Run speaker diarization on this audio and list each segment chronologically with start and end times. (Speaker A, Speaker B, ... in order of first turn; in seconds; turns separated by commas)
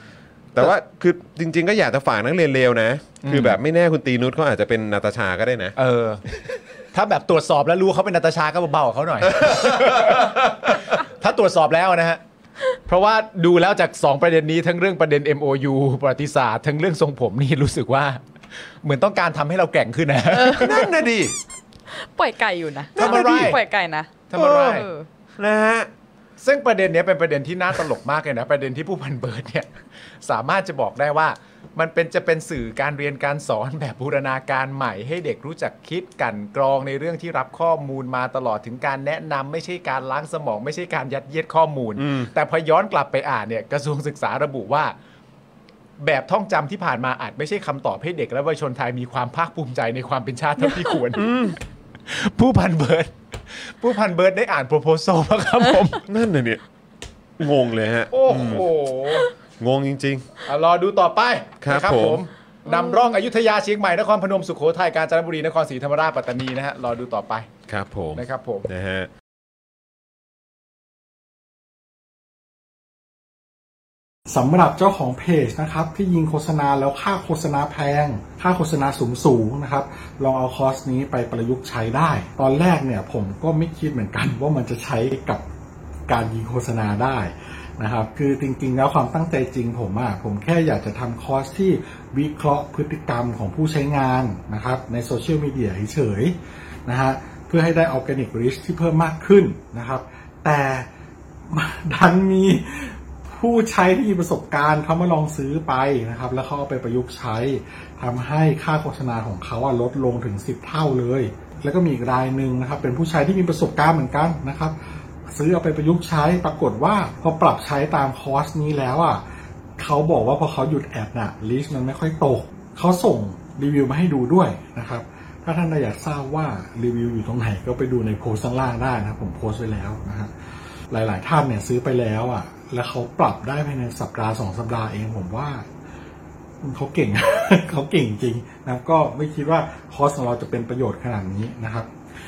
Speaker A: 0.5-5.7, Speaker B: 3.2-3.6, Speaker B: 5.8-6.2, Speaker B: 6.9-10.3, Speaker A: 9.2-10.8, Speaker B: 10.9-12.2, Speaker B: 12.9-18.2, Speaker B: 18.8-20.7, Speaker C: 20.3-21.0, Speaker A: 20.5-21.3, Speaker C: 21.9-25.1, Speaker A: 22.9-23.6, Speaker B: 23.0-23.6, Speaker B: 24.3-24.9, Speaker A: 24.3-24.8, Speaker A: 25.4-25.9, Speaker B: 26.4-29.7, Speaker B: 30.2-44.9, Speaker A: 42.0-42.3, Speaker B: 46.0-51.3, Speaker A: 51.1-51.6, Speaker B: 52.0-56.0, Speaker A: 56.1-56.6, Speaker A: 57.4-58.6, Speaker B: 58.1-59.3, Speaker A: 59.6-60.2, Speaker B: 60.4-67.5, Speaker A: 61.6-62.2, Speaker C: 62.7-63.0, Speaker A: 67.7-69.1, Speaker B: 68.2-68.7, Speaker D: 74.3-85.4, Speaker D: 86.1-100.9, Speaker D: 101.5-114.8, Speaker D: 115.3-119.2, Speaker D: 119.8-130.3, Speaker D: 130.9-135.7, Speaker D: 136.6-141.9